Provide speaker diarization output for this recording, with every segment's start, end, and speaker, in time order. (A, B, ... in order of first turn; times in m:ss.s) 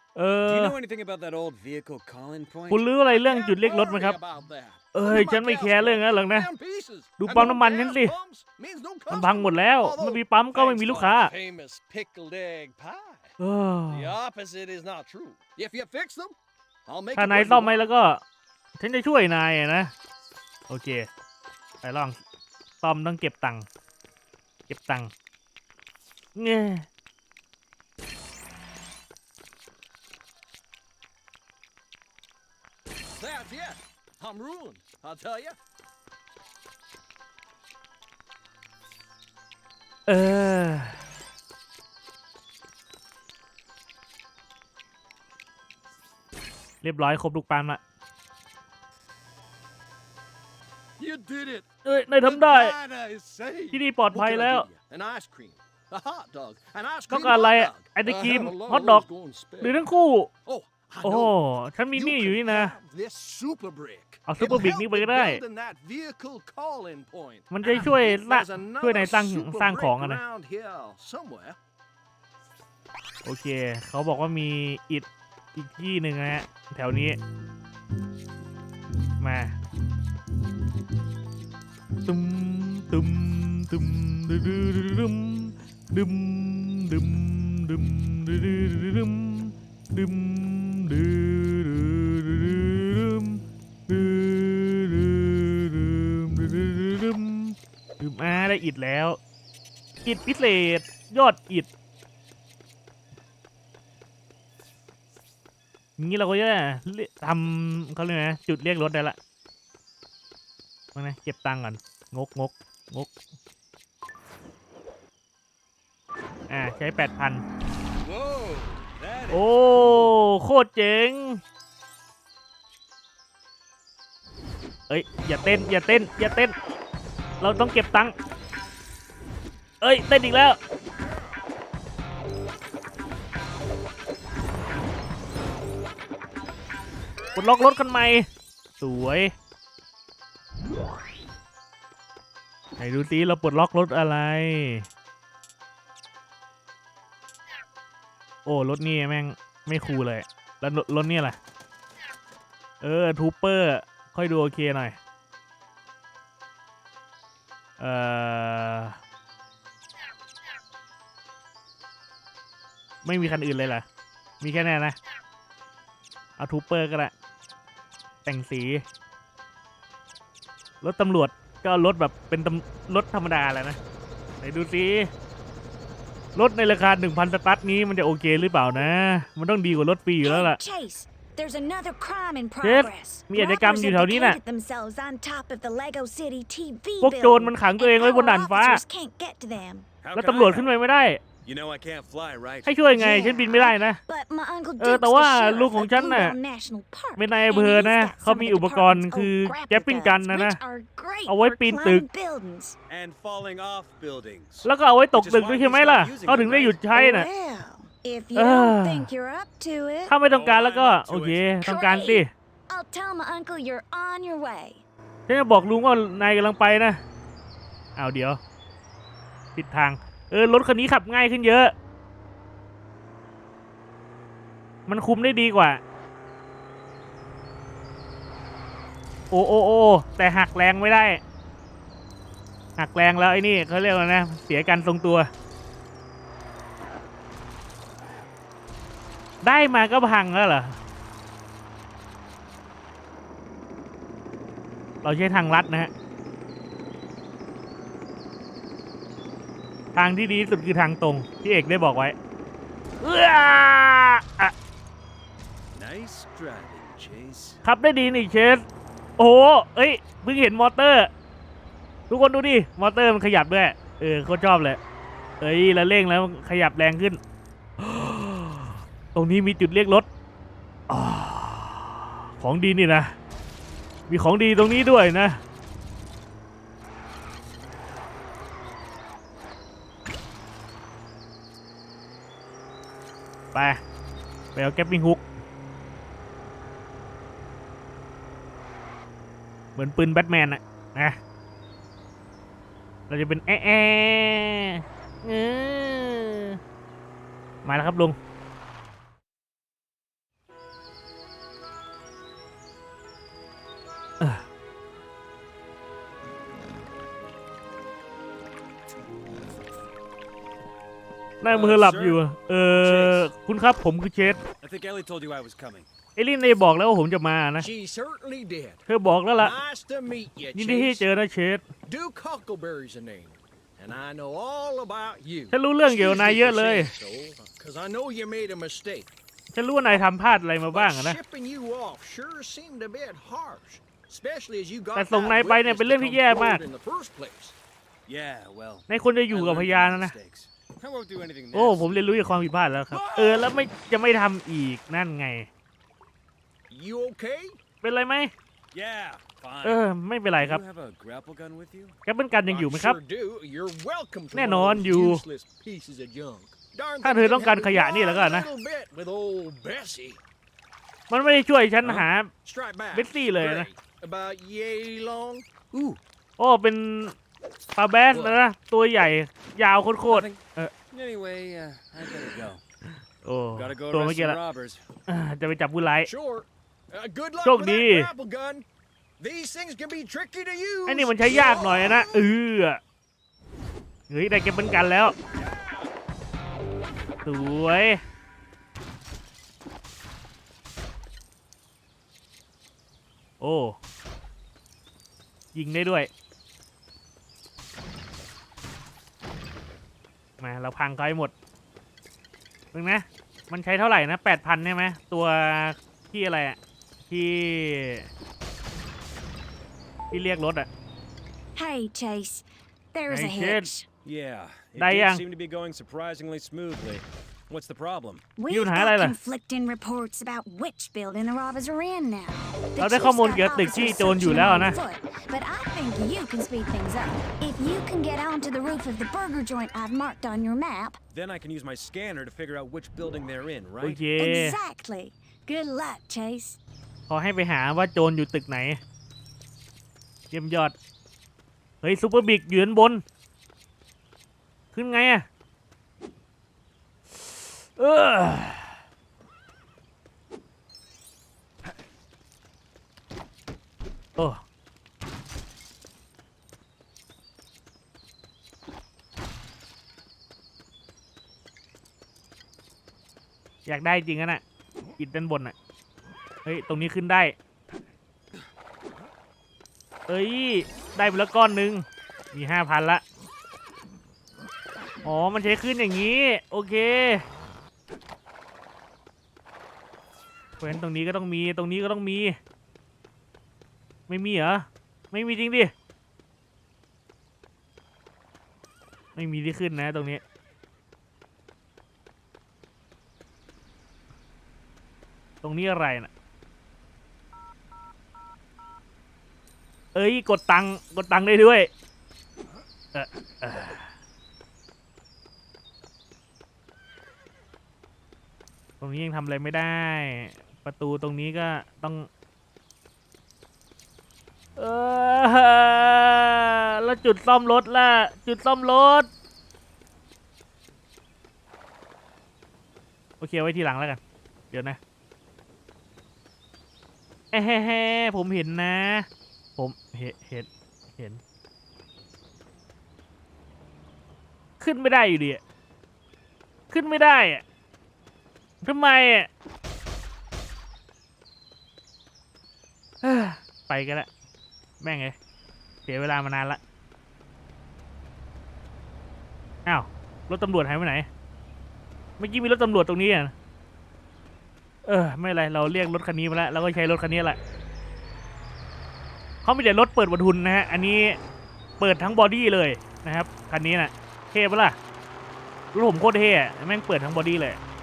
0:00.2-0:00.8 A
0:00.4-0:02.9 B
0:02.7-0:04.2 A
0:03.0-0:13.4 C
0:04.9-0:06.5 A
0:07.2-0:08.2 A
0:09.1-0:11.3 A
0:13.4-0:14.1 A
0:13.9-0:17.9 C
0:17.2-0:18.2 A
0:18.8-0:19.9 A
0:20.7-0:21.1 A
0:21.8-0:22.2 A
0:22.8-0:23.7 A
0:24.7-0:25.1 A
0:26.4-0:26.9 A
0:33.1-0:35.6 C
0:40.1-0:41.0 A
0:46.8-0:47.8 A
0:51.0-0:51.7 C
0:51.8-0:52.8 A
0:52.2-0:59.8 C
0:53.7-0:54.7 A
0:57.1-0:59.1 A
0:59.6-1:00.3 A
1:00.5-1:01.4 C
1:01.0-1:02.8 A
1:01.9-1:11.6 C
1:04.3-1:05.4 A
1:07.5-1:10.2 A
1:13.2-1:17.2 A
1:19.2-1:19.6 A
1:22.1-1:39.2 A
1:40.0-1:41.7 A
1:46.0-1:49.2 A
1:51.0-1:53.1 A
1:56.5-1:57.4 A
1:58.0-2:00.1 B
1:59.3-2:01.4 A
2:04.9-2:06.6 A
2:07.4-2:08.2 A
2:09.8-2:10.6 A
2:17.4-2:18.3 A
2:18.8-2:19.3 A
2:22.8-2:24.9 A
2:28.5-2:31.4 A
2:32.8-2:35.0 A
2:37.8-2:39.0 A
2:43.0-2:43.8 A
2:44.4-2:45.0 A
2:46.4-2:47.1 A
2:48.2-2:48.8 A
2:50.8-2:53.8 A
2:54.4-2:55.1 A
2:56.4-3:00.6 A
3:00.2-3:09.9 D
3:02.6-3:04.4 A
3:07.0-3:08.8 A
3:10.0-3:10.7 B
3:10.1-3:11.2 A
3:11.4-3:12.8 B
3:12.7-3:14.0 A
3:12.9-3:22.8 D
3:14.8-3:16.4 A
3:17.2-3:20.6 A
3:21.3-3:22.1 A
3:22.9-3:26.8 B
3:24.7-3:27.3 A
3:26.9-3:30.2 D
3:28.4-3:29.1 A
3:30.1-3:32.3 A
3:30.3-3:31.8 B
3:31.6-3:34.8 D
3:35.3-3:37.0 A
3:38.0-3:38.4 A
3:39.6-3:41.7 A
3:44.9-3:45.8 A
3:49.3-3:51.2 A
3:52.8-3:55.3 A
3:59.4-4:00.8 A
4:05.0-4:05.9 A
4:09.9-4:12.2 A
4:13.0-4:14.5 A
4:15.8-4:17.6 B
4:17.6-4:18.6 A
4:19.2-4:21.1 A
4:22.1-4:24.8 A
4:25.4-4:27.2 A
4:27.8-4:30.1 A
4:30.9-4:33.2 A
4:34.1-4:35.4 A
4:43.5-4:43.8 A
4:44.6-4:45.2 A
4:49.8-4:51.2 A
4:53.1-4:56.6 A
4:57.6-4:58.2 A
5:11.4-5:14.4 A
5:11.5-5:13.3 B
5:14.6-5:15.9 B
5:16.2-5:17.7 A
5:17.6-5:18.8 C
5:18.9-5:19.6 A
5:19.4-5:21.0 C
5:20.6-5:21.6 A
5:21.9-5:29.1 C
5:25.5-5:26.9 A
5:29.5-5:31.2 A
5:30.7-5:37.6 C
5:35.0-5:36.6 A
5:38.1-5:42.3 B
5:38.9-5:40.1 A
5:41.5-5:45.5 A
5:42.9-5:43.5 B
5:46.7-5:47.6 C
5:47.8-5:48.3 A
5:48.7-5:49.8 B
5:49.6-5:50.6 A
5:50.4-5:52.0 B
5:52.1-5:53.0 A
5:52.4-6:00.2 C
5:54.3-5:55.2 A
5:57.0-5:58.5 A
6:01.1-6:02.3 A
6:02.4-6:05.5 C
6:02.9-6:03.7 A
6:05.7-6:06.0 B
6:06.4-6:07.2 A
6:07.8-6:10.7 A
6:10.1-6:12.6 B
6:13.2-6:14.4 A
6:13.6-6:14.8 B
6:15.1-6:16.1 A
6:16.0-6:18.7 C
6:17.4-6:18.1 A
6:19.2-6:22.1 C
6:20.9-6:22.8 A
6:24.1-6:25.2 A
6:25.4-6:25.9 B
6:27.2-6:28.0 A
6:33.4-6:33.8 A
6:35.5-6:36.1 A
6:40.4-6:41.3 A
6:42.7-6:46.6 A
6:47.1-6:48.1 A
6:50.1-6:50.7 A
6:51.6-6:53.9 D
6:53.1-6:53.7 A
6:54.0-6:58.2 B
6:54.8-6:55.2 A
6:58.4-7:11.0 D
6:58.5-6:59.2 A
7:02.8-7:04.8 A
7:11.1-7:14.0 B
7:13.8-7:14.6 A
7:14.2-7:16.6 D
7:17.1-7:18.8 A
7:20.3-7:20.8 A
7:21.8-7:23.0 A
7:24.7-7:25.3 A
7:27.2-7:28.8 A
7:43.7-7:44.4 A
7:45.0-7:45.6 A
7:46.4-7:47.4 A
7:50.1-7:53.0 A
7:55.0-7:57.2 A
8:00.6-8:02.4 A
8:04.1-8:05.7 A
8:09.2-8:10.2 A
8:15.4-8:16.1 A
8:20.0-8:21.7 A
8:22.9-8:23.9 A
8:28.8-8:32.1 A
8:34.6-8:39.1 A
8:43.2-8:44.0 A
8:44.5-8:44.8 A
8:47.3-8:51.2 A
8:54.6-8:55.4 A
8:56.7-8:57.4 A
8:58.6-8:59.3 A
9:03.0-9:04.1 A
9:04.8-9:05.2 A
9:05.9-9:06.6 A
9:09.6-9:11.1 A
9:12.2-9:13.3 A
9:14.8-9:17.4 A
9:19.4-9:21.2 A
9:21.8-9:24.8 A
9:25.7-9:27.6 A